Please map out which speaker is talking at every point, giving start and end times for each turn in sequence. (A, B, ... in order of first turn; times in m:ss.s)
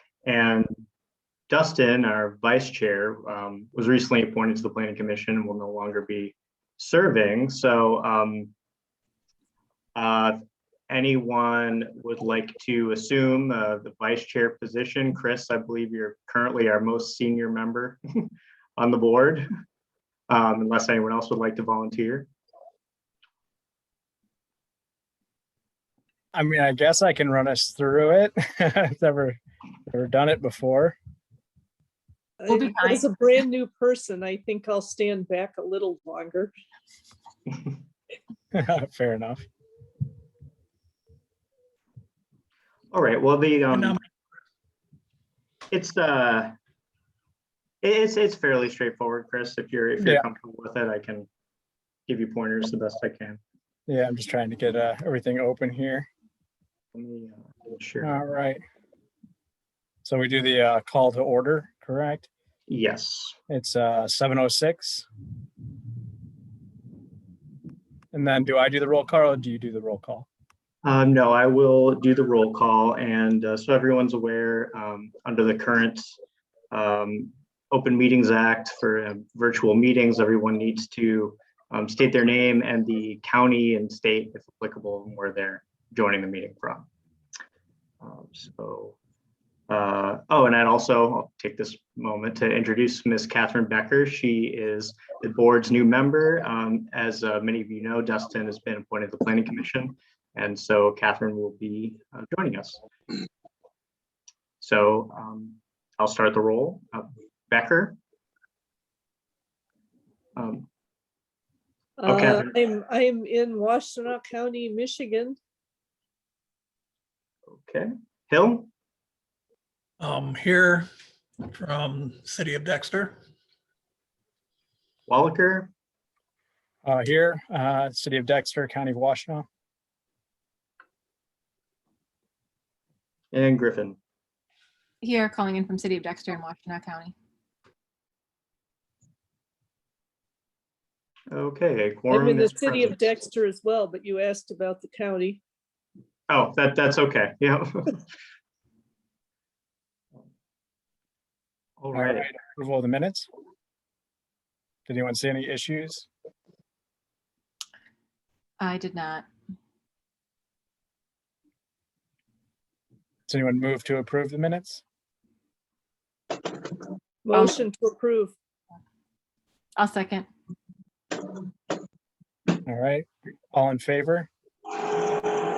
0:00.2-0:00.8 A
0:01.5-0:08.5 A
0:10.0-0:10.4 A
0:10.9-0:19.5 A
0:20.3-0:22.3 A
0:26.3-0:31.0 B
0:32.4-0:36.5 C
0:32.5-0:33.1 D
0:38.5-0:39.4 B
0:42.9-0:44.0 A
0:45.7-0:46.5 A
0:47.8-0:51.3 A
0:50.0-0:50.3 B
0:52.1-0:53.4 A
0:53.9-0:56.1 B
0:56.9-0:58.2 A
0:58.0-0:58.6 B
1:00.0-1:02.3 B
1:02.7-1:03.4 A
1:03.5-1:05.1 B
1:08.1-1:10.3 B
1:10.8-1:16.1 A
1:16.7-1:26.9 A
1:28.0-1:29.0 A
1:29.7-1:42.8 A
1:44.6-1:48.0 A
1:50.4-1:50.7 A
1:52.0-1:55.4 C
1:52.0-1:52.5 A
1:57.5-1:58.7 A
2:00.0-2:00.9 E
2:01.5-2:03.2 E
2:05.1-2:05.7 A
2:06.8-2:09.5 B
2:13.3-2:14.0 A
2:15.0-2:17.1 D
2:21.3-2:23.2 A
2:22.1-2:25.4 C
2:26.3-2:28.0 A
2:31.8-2:32.3 A
2:31.9-2:33.3 B
2:34.9-2:36.1 B
2:38.6-2:39.2 D
2:43.3-2:44.8 B
2:47.2-2:48.3 C
2:47.3-2:47.6 D
2:49.8-2:50.3 D
2:52.6-2:54.3 B